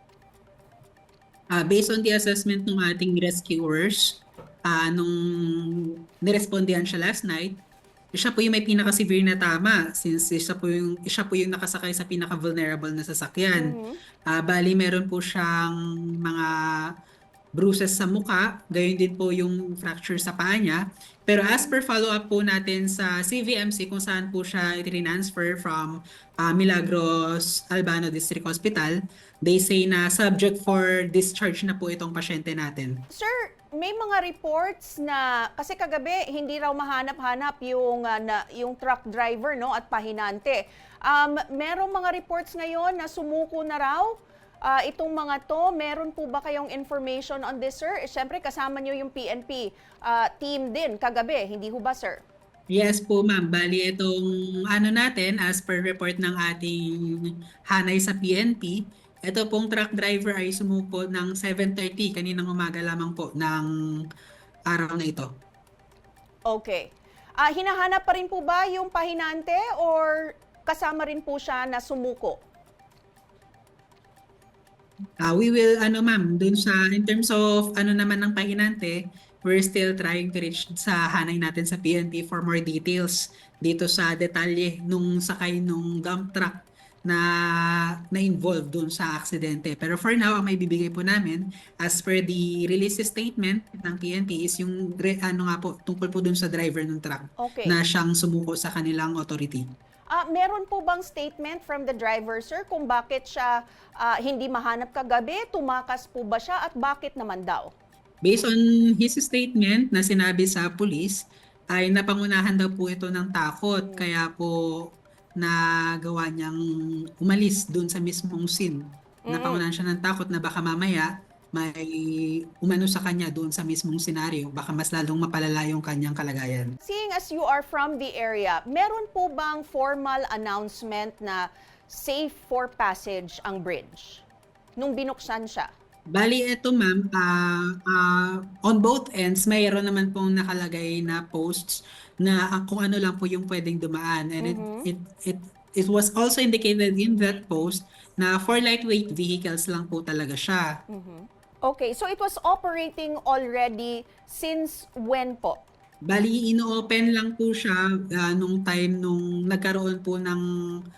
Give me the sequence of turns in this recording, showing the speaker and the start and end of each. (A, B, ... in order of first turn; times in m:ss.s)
0:01.5-0:07.6 A
0:08.1-0:16.9 A
0:13.5-0:14.0 B
0:17.5-0:33.0 A
0:33.1-0:44.1 B
0:44.6-0:52.2 B
0:52.7-1:03.7 A
1:04.7-1:05.3 A
1:06.5-1:12.4 B
1:15.2-1:39.6 A
1:37.4-1:37.8 B
1:40.1-1:47.7 B
1:48.2-1:54.5 A
1:53.7-1:54.0 B
1:55.4-1:56.6 A
1:57.2-2:06.8 A
1:59.2-1:59.6 B
2:06.8-2:14.2 B
2:14.8-2:15.7 B
2:16.1-2:30.8 A
2:24.4-2:24.9 B
2:30.9-2:35.6 B
2:36.0-2:40.4 A